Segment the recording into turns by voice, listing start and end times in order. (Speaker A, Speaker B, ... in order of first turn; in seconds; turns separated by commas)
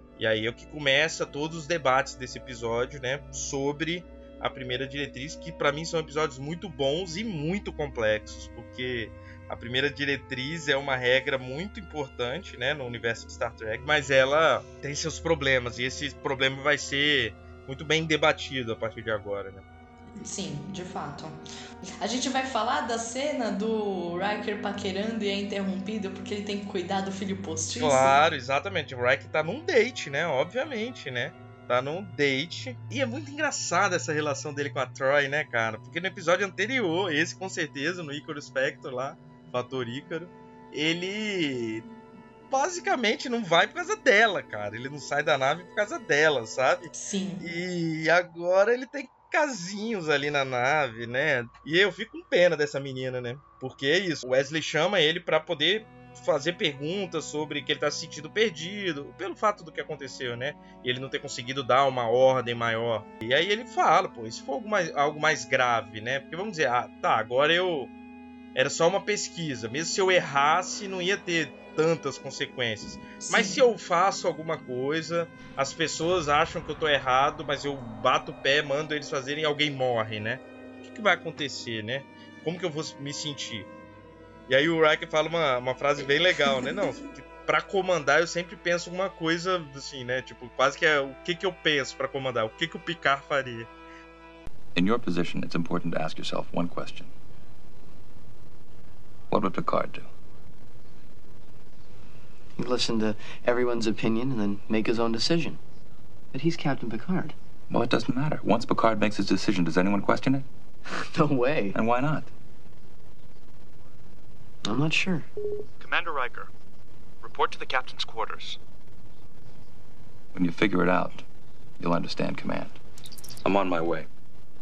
Speaker A: 0.2-19.6, Speaker B: 20.2-21.4, Speaker B: 22.0-28.2, Speaker A: 27.8-41.9, Speaker A: 42.5-67.9, Speaker B: 46.9-47.5, Speaker A: 68.5-83.7, Speaker B: 73.2-73.6, Speaker A: 84.5-93.7, Speaker C: 94.8-97.1, Speaker C: 99.3-100.1, Speaker D: 102.6-105.6, Speaker D: 106.3-107.3, Speaker C: 107.7-110.5, Speaker D: 110.9-111.8, Speaker C: 111.7-112.3, Speaker D: 114.6-115.3, Speaker E: 115.8-116.5, Speaker E: 117.2-118.6, Speaker C: 120.3-121.2, Speaker C: 121.8-122.8, Speaker C: 123.4-124.1